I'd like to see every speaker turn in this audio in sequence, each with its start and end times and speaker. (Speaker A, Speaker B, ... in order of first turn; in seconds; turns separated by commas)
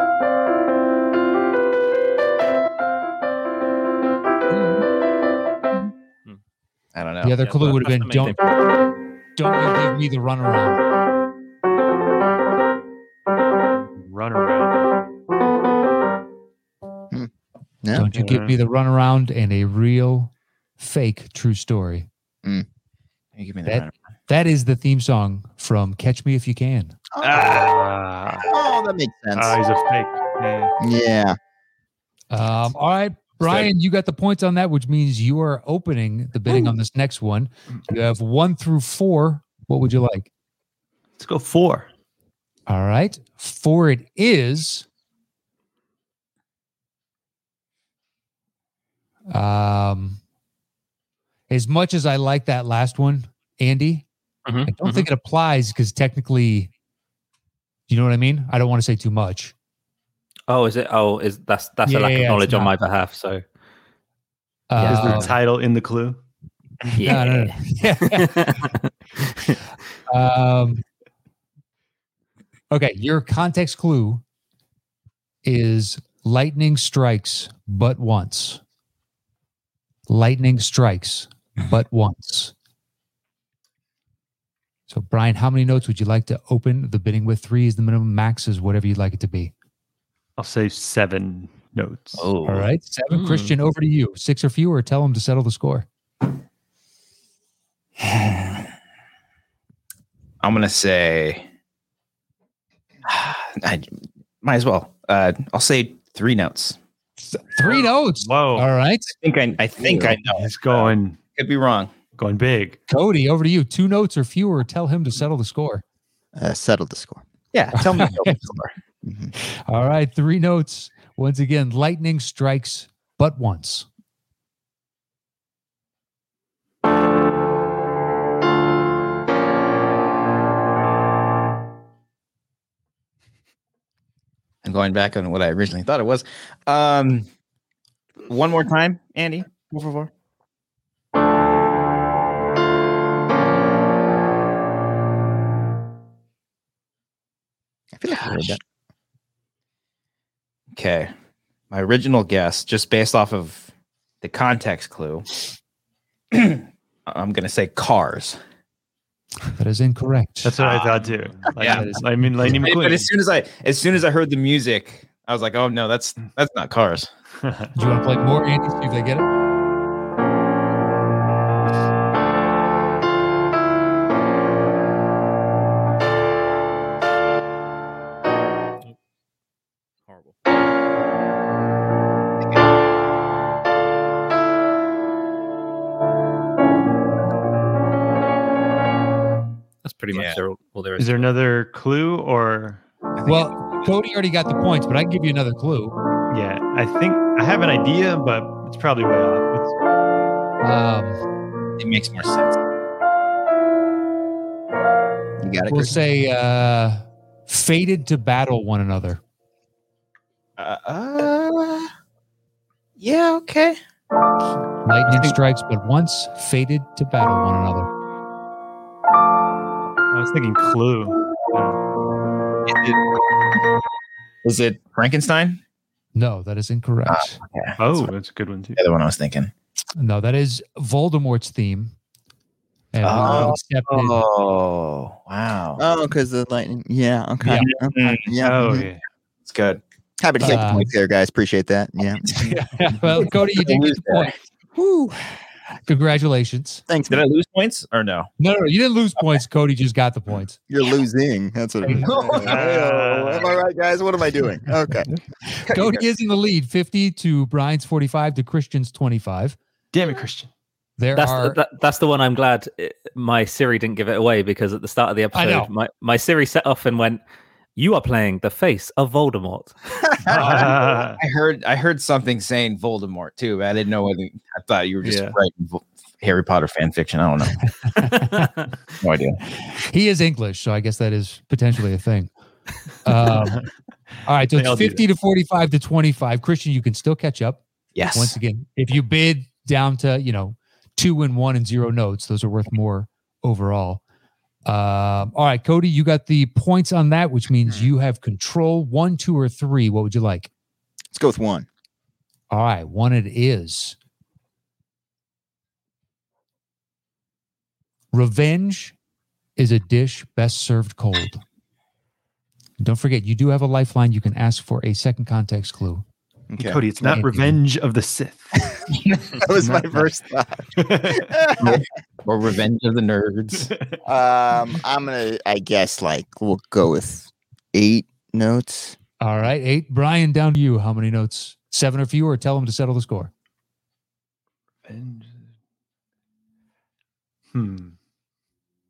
Speaker A: 7.0-7.4, Speaker B: 7.2-8.4, Speaker C: 7.4-8.4, Speaker B: 9.4-10.8, Speaker D: 13.9-14.8, Speaker E: 17.8-18.1, Speaker B: 17.9-22.1, Speaker D: 18.1-18.6, Speaker A: 23.4-23.9, Speaker B: 23.7-27.0, Speaker E: 27.1-27.6, Speaker A: 27.2-27.7, Speaker D: 27.4-28.5, Speaker E: 28.5-29.6, Speaker D: 29.4-30.7, Speaker E: 30.8-31.4, Speaker B: 32.3-40.3, Speaker D: 41.2-41.9, Speaker B: 42.7-44.9, Speaker B: 49.3-50.2, Speaker B: 51.5-54.1, Speaker C: 54.5-55.1, Speaker B: 54.7-56.7, Speaker B: 57.9-59.5, Speaker C: 60.5-63.4, Speaker B: 61.9-62.8, Speaker B: 64.7-65.3, Speaker C: 64.8-65.3, Speaker D: 64.9-66.2, Speaker C: 66.9-69.6, Speaker B: 67.0-68.7, Speaker B: 70.1-70.8, Speaker B: 72.7-74.2, Speaker B: 75.4-78.6, Speaker B: 80.1-82.5, Speaker B: 84.9-89.5, Speaker D: 90.4-92.3, Speaker A: 92.2-92.7, Speaker B: 92.5-95.9, Speaker C: 93.1-93.5, Speaker A: 98.0-98.6, Speaker A: 100.4-101.5, Speaker A: 103.1-103.9, Speaker A: 104.4-106.8, Speaker B: 107.3-109.2, Speaker D: 107.6-108.7, Speaker A: 109.2-111.9, Speaker D: 110.0-111.2, Speaker D: 112.2-112.8, Speaker B: 112.9-115.8, Speaker E: 116.4-117.2, Speaker A: 117.5-118.7, Speaker B: 117.7-118.4, Speaker E: 119.0-119.3, Speaker B: 119.4-123.9, Speaker A: 134.6-137.3, Speaker A: 138.3-140.1, Speaker E: 148.0-148.6, Speaker A: 150.7-151.1, Speaker A: 151.7-153.7, Speaker A: 154.2-155.4, Speaker A: 156.3-158.4, Speaker B: 159.5-160.5, Speaker D: 160.4-163.1, Speaker A: 160.6-161.9, Speaker B: 161.6-162.6, Speaker A: 162.5-167.1, Speaker D: 167.4-167.7, Speaker B: 167.8-169.3, Speaker C: 189.8-191.2, Speaker A: 190.1-190.4, Speaker D: 191.0-192.8, Speaker A: 193.2-193.6, Speaker B: 193.2-195.9, Speaker D: 196.3-199.7, Speaker B: 200.6-201.2, Speaker A: 201.8-202.6, Speaker E: 205.4-206.0, Speaker B: 205.7-209.2, Speaker A: 210.6-211.9, Speaker A: 213.0-213.8, Speaker B: 214.8-217.9, Speaker D: 220.1-221.8, Speaker A: 222.7-223.0, Speaker A: 224.4-225.6, Speaker B: 226.2-227.4, Speaker A: 227.1-228.1, Speaker D: 227.8-228.8, Speaker A: 228.8-229.5, Speaker B: 230.0-231.9, Speaker B: 232.9-234.2, Speaker A: 233.0-235.8, Speaker E: 233.1-233.6, Speaker E: 235.8-238.9, Speaker A: 237.4-238.4, Speaker D: 238.4-239.0, Speaker A: 239.5-239.8, Speaker E: 240.2-242.5, Speaker B: 240.4-240.9, Speaker A: 240.4-240.8, Speaker B: 242.4-244.3, Speaker A: 243.1-244.3, Speaker E: 244.8-245.3, Speaker B: 245.9-246.8, Speaker E: 246.9-247.2, Speaker A: 247.1-248.3, Speaker B: 248.4-250.6, Speaker E: 250.7-255.1, Speaker A: 251.9-252.6, Speaker D: 252.4-253.6, Speaker B: 255.5-259.6, Speaker A: 255.7-256.0, Speaker D: 259.9-260.5, Speaker B: 261.0-261.6, Speaker C: 261.1-267.2, Speaker B: 265.3-265.7, Speaker C: 267.8-269.7, Speaker D: 270.2-271.2, Speaker A: 270.3-277.6, Speaker C: 275.0-275.4, Speaker B: 278.0-278.5, Speaker C: 278.1-278.6, Speaker A: 279.0-279.4, Speaker B: 279.6-282.3, Speaker B: 283.0-283.6, Speaker D: 283.1-283.7, Speaker B: 284.3-287.6, Speaker D: 284.5-285.0, Speaker A: 288.0-288.4, Speaker B: 288.1-294.0, Speaker B: 294.7-300.5, Speaker E: 297.6-297.9, Speaker E: 301.1-301.7, Speaker B: 302.5-304.0, Speaker B: 308.1-308.9, Speaker B: 309.6-311.4, Speaker B: 312.8-316.1, Speaker E: 316.5-316.8, Speaker D: 316.6-318.7, Speaker B: 317.0-317.6, Speaker E: 319.4-321.8, Speaker D: 319.6-320.1, Speaker D: 320.8-321.5, Speaker A: 321.6-323.7, Speaker E: 324.1-329.0, Speaker B: 329.2-333.3, Speaker D: 334.9-335.4, Speaker D: 337.5-337.9